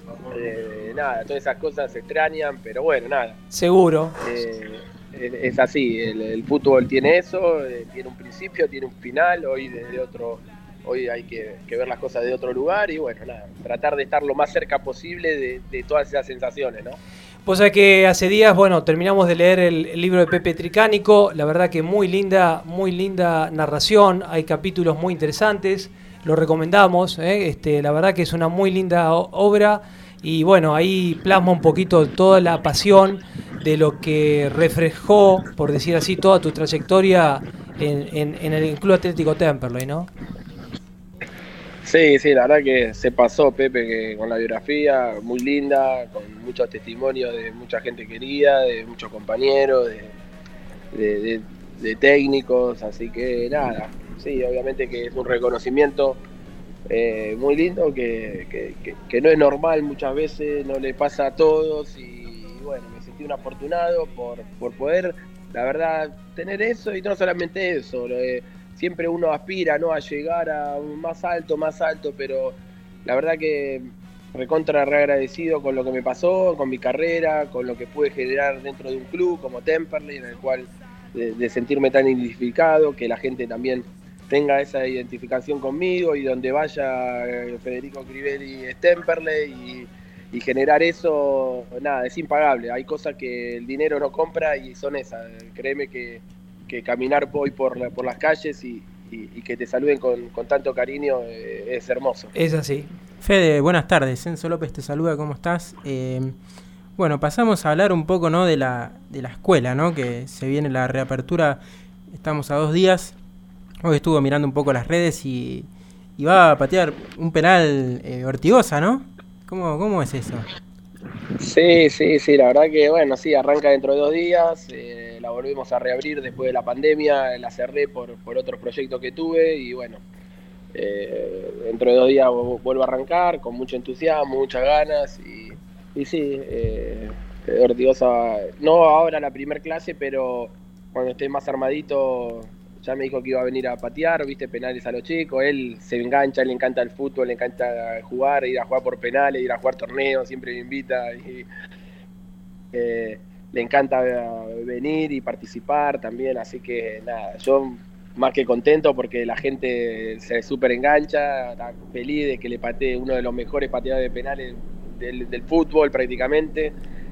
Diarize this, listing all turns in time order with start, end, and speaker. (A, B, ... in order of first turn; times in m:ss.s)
0:00.3-0:03.4 A
0:03.5-0:04.2 B
0:04.2-0:17.0 A
0:17.5-0:40.1 B
0:41.8-0:50.1 A
0:50.9-0:56.2 A
0:56.9-1:42.3 A
1:42.4-1:42.9 B
1:43.2-1:46.4 C
1:47.0-1:53.2 C
1:53.8-2:00.5 C
2:01.4-2:10.0 A
2:10.7-2:31.5 A
2:32.7-2:46.7 A